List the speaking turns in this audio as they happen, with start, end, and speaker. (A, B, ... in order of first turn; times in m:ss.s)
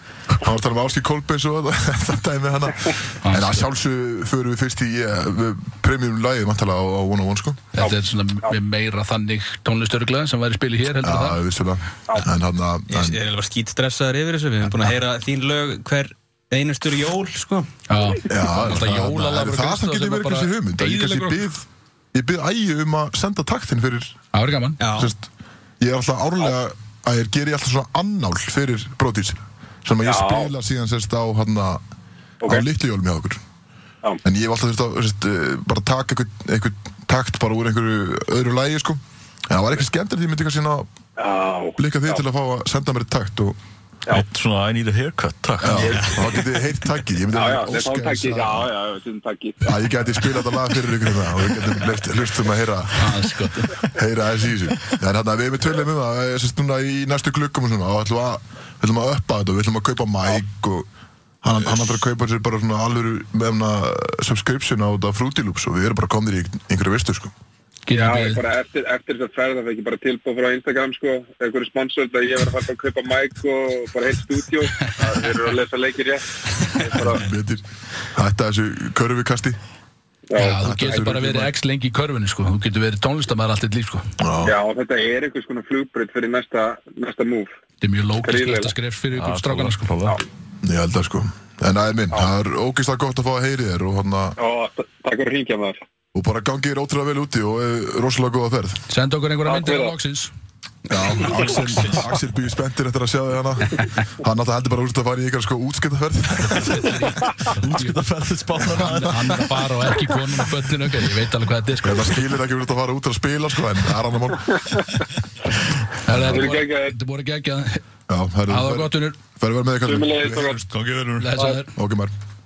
0:00.4-0:07.7 A
0:03.2-0:03.7 B
0:07.7-0:11.4 B
0:07.8-0:08.6 C
0:11.0-0:13.2 A
0:12.9-0:17.7 D
0:17.9-0:21.4 B
0:18.3-0:24.2 A
0:24.3-0:24.8 B
0:24.8-0:25.1 D
0:25.0-0:25.3 A
0:25.8-0:31.8 A
0:30.0-0:30.5 C
0:32.4-0:33.4 A
0:34.2-0:39.0 A
0:39.5-0:40.9 A
0:41.2-0:42.2 C
0:41.8-0:43.6 A
0:44.1-0:46.4 E
0:45.6-0:48.7 A
0:45.8-0:46.2 D
0:47.3-0:49.8 C
0:49.6-0:53.2 A
0:53.0-0:53.8 B
0:53.8-1:00.9 A
1:01.4-1:07.3 A
1:07.8-1:08.4 B
1:07.9-1:17.2 C
1:16.9-1:19.6 A
1:20.3-1:21.0 C
1:20.4-1:24.0 B
1:20.6-1:21.5 A
1:24.2-1:24.5 A
1:24.4-1:27.5 C
1:27.8-1:29.9 B
1:28.2-1:28.7 C
1:29.1-1:30.2 E
1:30.6-1:34.4 A
1:34.4-1:35.8 C
1:36.1-1:38.8 A
1:38.9-1:40.3 B
1:39.4-1:39.9 C
1:40.9-1:46.9 A
1:41.2-1:41.6 C
1:41.2-1:42.1 E
1:46.5-1:46.9 E
1:46.6-1:48.0 B
1:47.5-1:49.6 E
1:48.6-1:52.2 B
1:51.8-1:54.6 A
1:54.5-1:55.0 C
1:56.0-1:57.8 B
1:56.1-1:56.5 A
1:56.3-1:57.0 C
1:58.1-2:00.8 A
1:58.5-1:59.2 B
1:59.8-2:00.6 C
2:00.7-2:01.3 E
2:01.2-2:01.7 B
2:01.7-2:02.1 A